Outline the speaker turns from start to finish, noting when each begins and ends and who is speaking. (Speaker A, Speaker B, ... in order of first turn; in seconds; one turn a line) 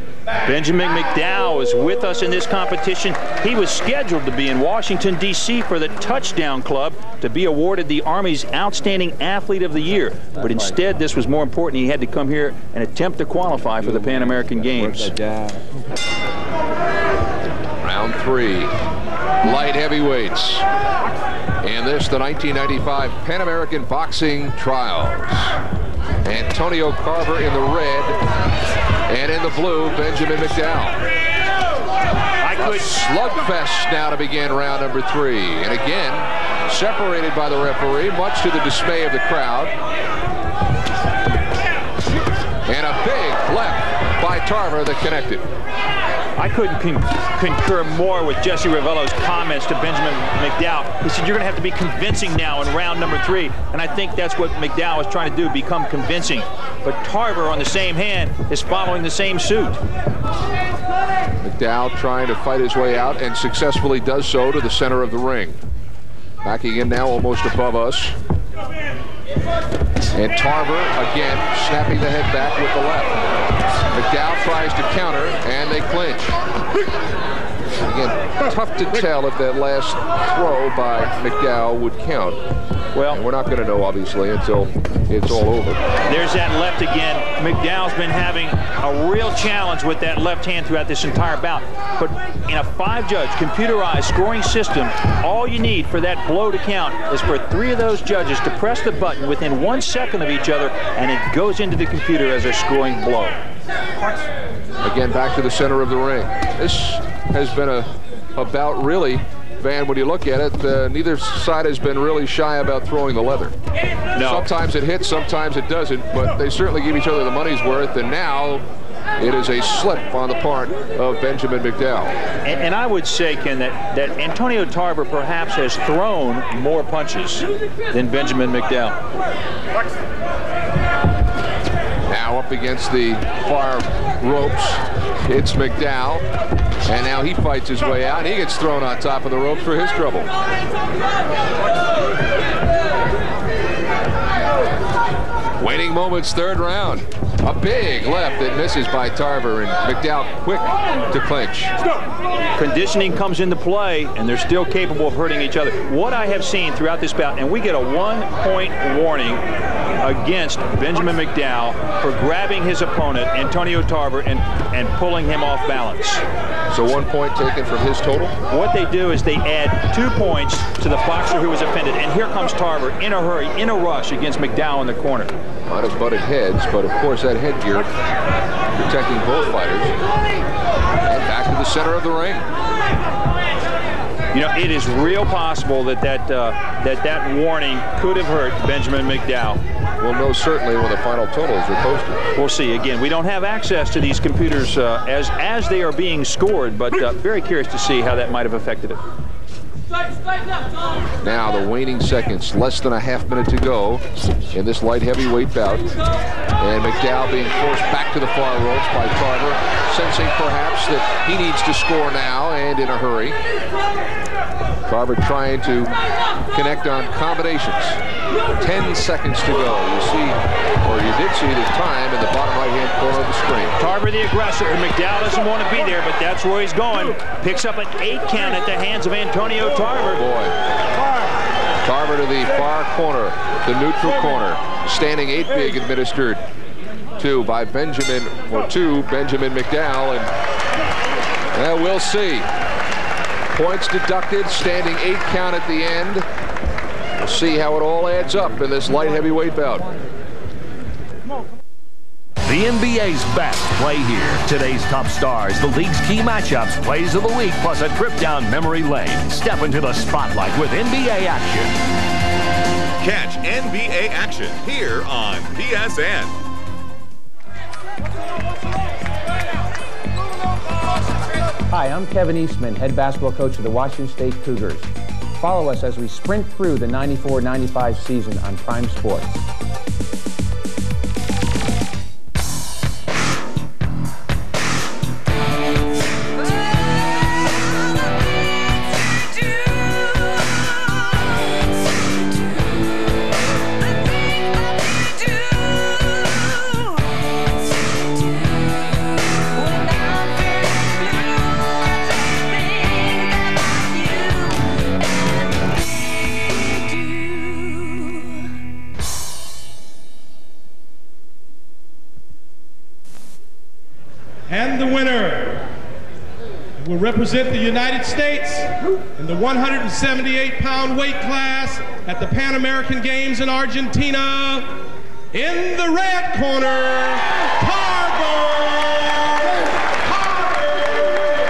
Speaker A: 0.4-15.2
Speaker B: 13.8-15.7
Speaker B: 17.8-18.7
Speaker B: 19.4-20.7
Speaker B: 21.6-25.6
Speaker B: 26.2-28.2
Speaker B: 29.1-31.0
Speaker A: 32.4-32.9
Speaker B: 32.6-39.7
Speaker B: 42.7-45.5
Speaker A: 46.4-59.8
Speaker B: 61.4-65.6
Speaker B: 66.4-68.2
Speaker B: 70.2-73.2
Speaker B: 73.9-76.4
Speaker B: 77.8-82.4
Speaker A: 82.9-83.2
Speaker B: 83.1-85.8
Speaker A: 86.0-103.4
Speaker B: 104.8-113.5
Speaker A: 114.1-114.5
Speaker B: 114.2-118.6
Speaker B: 119.2-122.1
Speaker A: 122.4-129.0
Speaker B: 132.1-136.2
Speaker B: 136.8-140.3
Speaker B: 145.6-151.7
Speaker A: 152.6-159.4
Speaker A: 160.0-166.2
Speaker B: 166.7-168.3
Speaker A: 168.5-175.3
Speaker B: 175.7-177.9
Speaker B: 178.7-179.9
Speaker B: 181.1-182.5
Speaker A: 184.3-189.6
Speaker B: 190.0-192.2
Speaker A: 192.3-199.0
Speaker B: 201.2-205.9
Speaker B: 206.6-213.4
Speaker B: 214.9-215.9
Speaker B: 216.5-218.0
Speaker B: 218.6-223.8
Speaker A: 223.8-230.2
Speaker B: 230.1-230.5
Speaker B: 231.8-236.4
Speaker B: 237.2-240.3
Speaker B: 241.5-242.5
Speaker B: 243.5-246.2
Speaker B: 247.2-249.9
Speaker C: 252.5-261.7
Speaker D: 263.0-266.4
Speaker E: 271.7-279.4
Speaker C: 289.6-290.4
Speaker C: 294.9-297.0
Speaker C: 299.6-304.8
Speaker C: 306.9-308.4
Speaker F: 314.5-315.7
Speaker F: 316.8-324.8
Speaker F: 325.3-329.4